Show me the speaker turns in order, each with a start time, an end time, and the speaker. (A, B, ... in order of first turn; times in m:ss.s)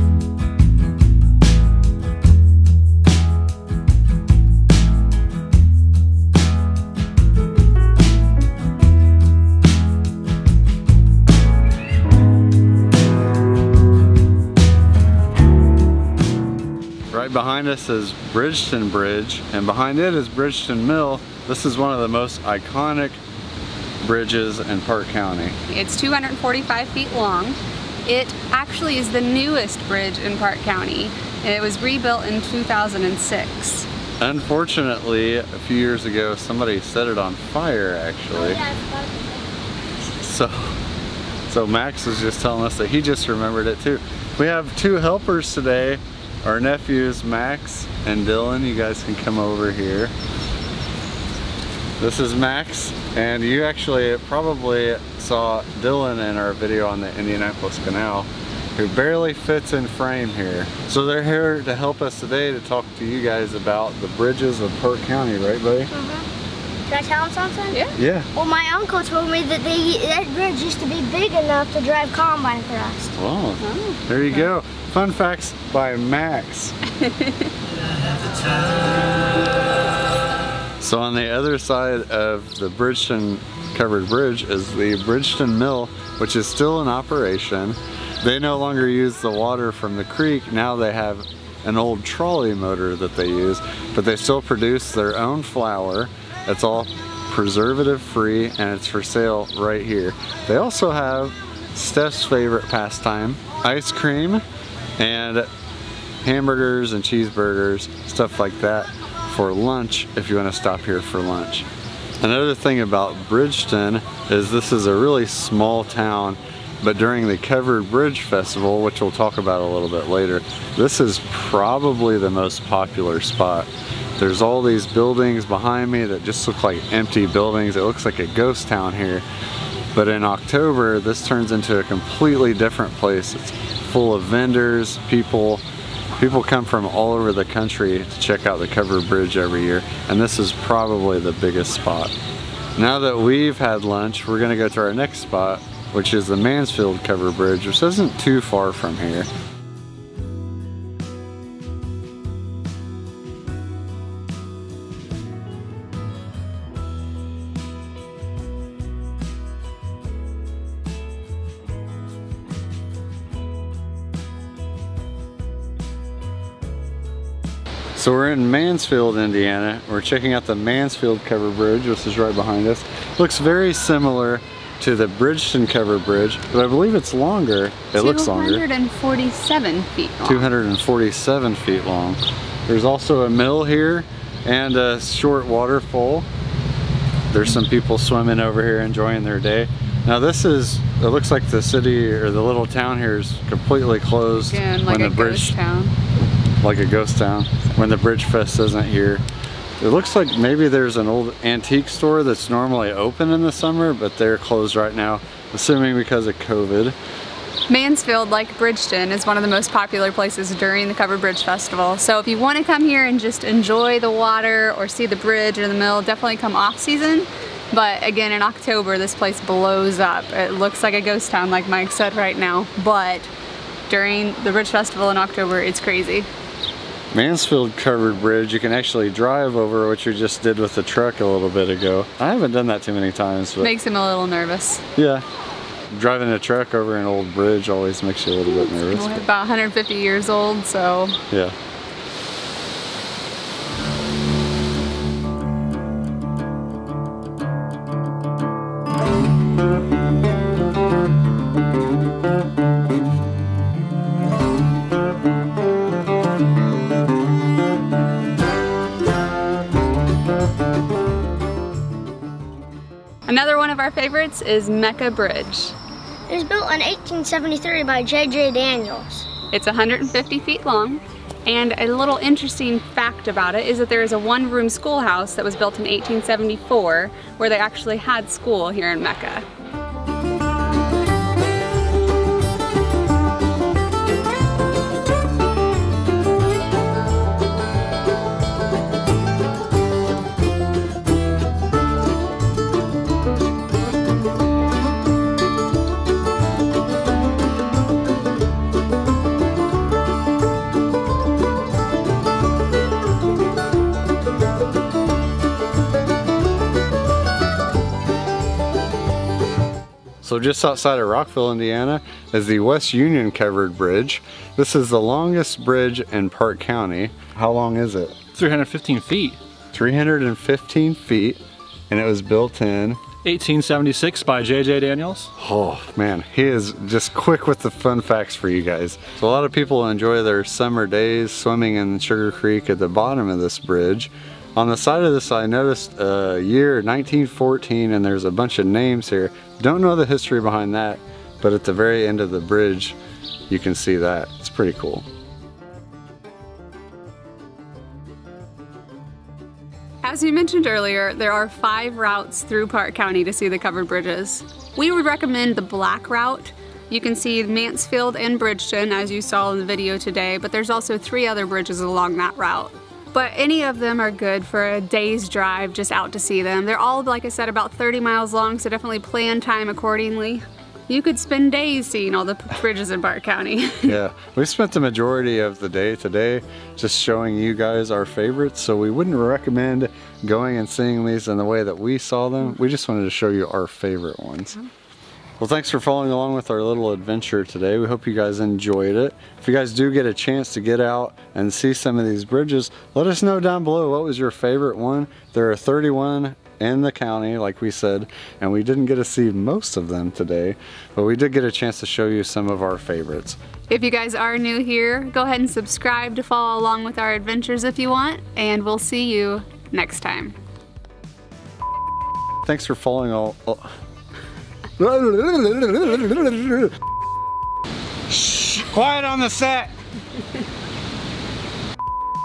0:17.1-0:23.2 A
0:24.0-0:25.6 A
0:25.7-0:33.9 B
0:34.2-0:38.6 A
0:38.4-0:39.4 C
0:40.0-0:40.8 A
0:41.5-0:50.1 A
0:52.0-1:05.9 A
1:05.9-1:06.3 C
1:06.9-1:13.1 C
1:07.7-1:08.0 B
1:08.0-1:08.3 A
1:13.2-1:16.8 A
1:13.6-1:14.1 B
1:17.0-1:17.5 B
1:20.8-1:44.4 A
1:45.0-1:45.5 A
1:46.2-1:51.7 A
1:52.2-2:09.2 A
2:09.9-2:15.6 A
2:16.2-2:22.1 A
2:22.8-2:29.3 A
2:48.0-2:58.6 A
2:57.9-3:00.5 B
3:00.2-3:06.3 A
3:07.3-3:15.6 A
3:14.5-3:16.0 B
3:16.6-3:19.2 A
3:19.8-3:27.0 A
3:27.7-3:43.3 B
3:43.9-3:46.3 B
3:47.1-3:53.7 A
3:53.6-3:54.8 B
3:55.0-3:55.2 A
3:55.9-3:59.2 A
3:58.4-4:01.2 B
4:01.3-4:01.6 A
4:23.3-4:25.8 B
4:26.3-4:29.3 C
4:29.5-4:39.5 B
5:10.2-5:18.3 A
5:18.3-5:19.4 D
5:19.7-5:23.1 A
5:23.2-5:25.3 D
5:25.4-5:43.0 A
5:43.5-5:45.1 A
5:50.0-6:14.0 B
6:13.8-6:24.6 A
6:25.4-6:43.4 A
6:43.7-6:50.4 B
6:52.4-6:53.7 A
6:54.8-6:56.7 A
6:58.1-6:59.7 A